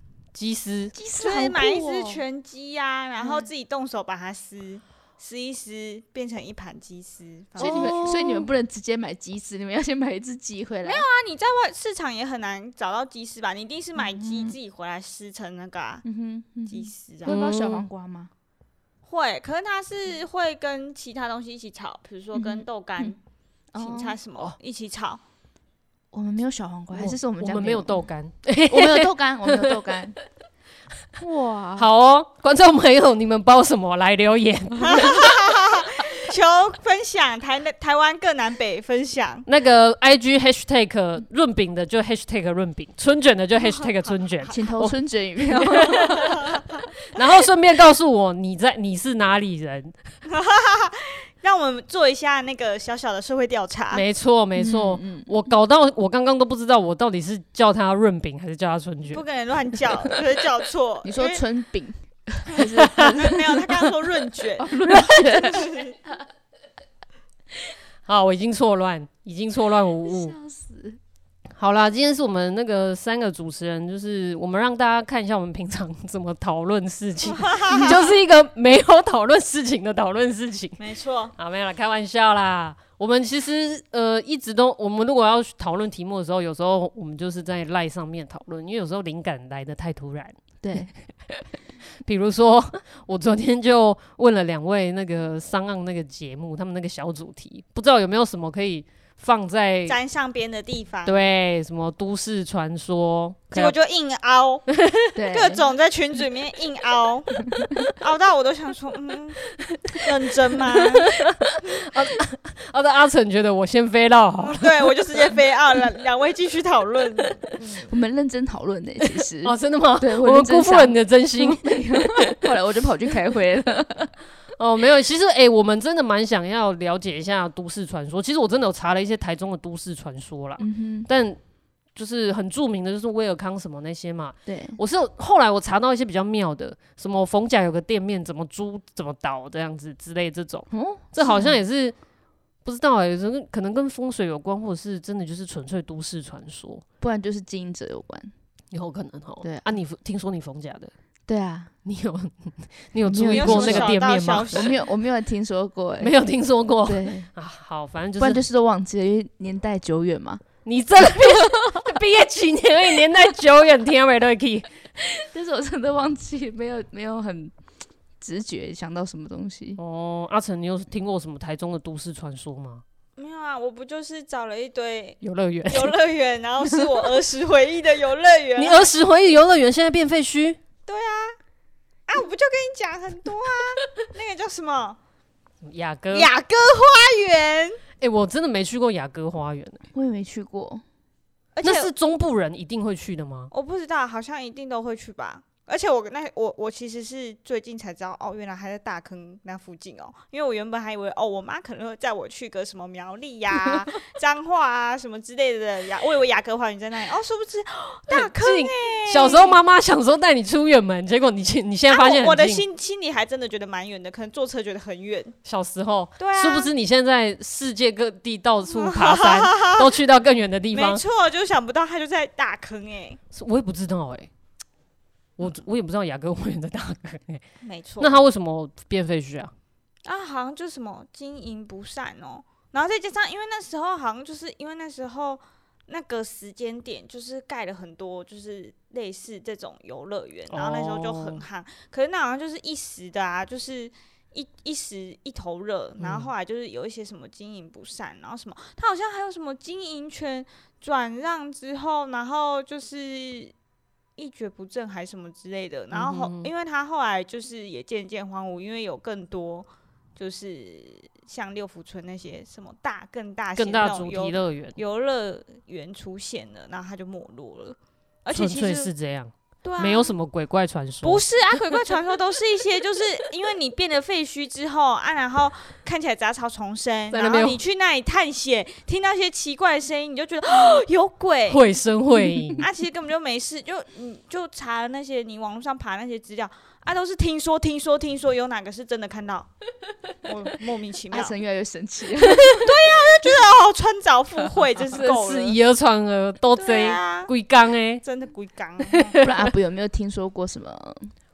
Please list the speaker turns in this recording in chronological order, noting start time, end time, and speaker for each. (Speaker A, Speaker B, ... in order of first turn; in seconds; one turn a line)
Speaker A: 0.3-0.9
Speaker B: 0.9-2.2
Speaker C: 1.2-8.1
Speaker B: 3.2-3.5
Speaker A: 7.6-8.5
Speaker B: 7.6-11.0
Speaker C: 10.8-16.0
Speaker B: 13.9-14.6
Speaker B: 16.0-18.3
Speaker C: 16.6-17.3
Speaker A: 17.2-17.9
Speaker C: 19.1-23.2
Speaker B: 22.3-23.1
Speaker B: 23.7-24.2
Speaker C: 23.8-25.2
Speaker B: 26.1-28.1
Speaker A: 26.9-29.8
Speaker B: 28.7-30.1
Speaker B: 31.2-31.9
Speaker A: 31.8-35.3
Speaker C: 34.8-39.5
Speaker A: 39.5-46.3
Speaker C: 43.6-44.2
Speaker B: 44.5-46.4
Speaker C: 45.9-46.6
Speaker A: 47.1-50.0
Speaker C: 50.3-54.0
Speaker A: 53.9-59.2
Speaker B: 54.5-55.3
Speaker C: 59.1-61.4
Speaker B: 61.0-63.6
Speaker C: 63.1-65.9
Speaker B: 64.6-66.2
Speaker A: 68.0-70.3
Speaker B: 70.0-71.0
Speaker A: 71.5-80.8
Speaker C: 77.4-78.0
Speaker C: 80.8-81.3
Speaker A: 81.4-90.3
Speaker B: 90.6-90.9
Speaker A: 92.0-100.0
Speaker C: 99.9-101.2
Speaker A: 101.0-103.7
Speaker C: 103.5-104.7
Speaker A: 104.7-105.1
Speaker B: 105.1-105.7
Speaker C: 105.3-107.3
Speaker C: 107.9-109.4
Speaker C: 110.0-111.1
Speaker A: 110.8-114.7
Speaker C: 114.4-117.9
Speaker B: 117.9-124.1
Speaker A: 119.4-122.5
Speaker A: 124.6-131.4
Speaker B: 130.6-131.1
Speaker A: 131.9-141.9
Speaker B: 134.4-134.8
Speaker B: 140.7-141.6
Speaker A: 142.6-146.8
Speaker B: 147.0-148.3
Speaker A: 148.7-150.9
Speaker B: 149.4-149.8
Speaker B: 151.3-151.7
Speaker A: 151.8-154.7
Speaker B: 153.0-153.9
Speaker C: 153.2-154.8
Speaker B: 154.5-156.2
Speaker A: 156.0-158.4
Speaker B: 156.8-157.3
Speaker B: 158.2-160.4
Speaker A: 160.6-164.7
Speaker B: 161.1-161.4
Speaker B: 165.2-167.5
Speaker B: 168.2-169.8
Speaker A: 169.8-172.8
Speaker C: 173.2-178.9
Speaker A: 175.2-176.0
Speaker A: 178.6-180.6
Speaker C: 180.8-181.3
Speaker C: 182.1-185.0
Speaker A: 185.6-186.3
Speaker C: 186.1-187.8
Speaker A: 188.0-189.8
Speaker B: 189.9-190.8
Speaker C: 191.5-191.9
Speaker A: 191.6-193.5
Speaker C: 193.5-209.6
Speaker A: 208.1-212.6
Speaker C: 211.9-215.3
Speaker A: 215.4-221.0
Speaker C: 216.2-216.7
Speaker C: 218.7-219.9
Speaker C: 220.7-223.2
Speaker A: 223.3-224.3
Speaker A: 225.4-227.4
Speaker C: 227.6-228.2
Speaker A: 228.0-229.5
Speaker C: 230.0-253.5
Speaker A: 240.5-241.4
Speaker A: 246.0-246.3
Speaker C: 254.2-268.9
Speaker A: 255.9-256.5
Speaker A: 263.6-264.8
Speaker A: 268.3-271.2
Speaker C: 269.6-270.1
Speaker C: 271.0-281.6
Speaker A: 277.1-277.6
Speaker A: 281.5-282.7
Speaker C: 282.6-289.5
Speaker C: 290.2-291.4
Speaker B: 291.1-292.8
Speaker C: 292.5-295.6
Speaker A: 294.9-298.0
Speaker C: 296.5-297.3
Speaker C: 298.0-299.2
Speaker A: 298.9-299.5
Speaker B: 299.2-301.1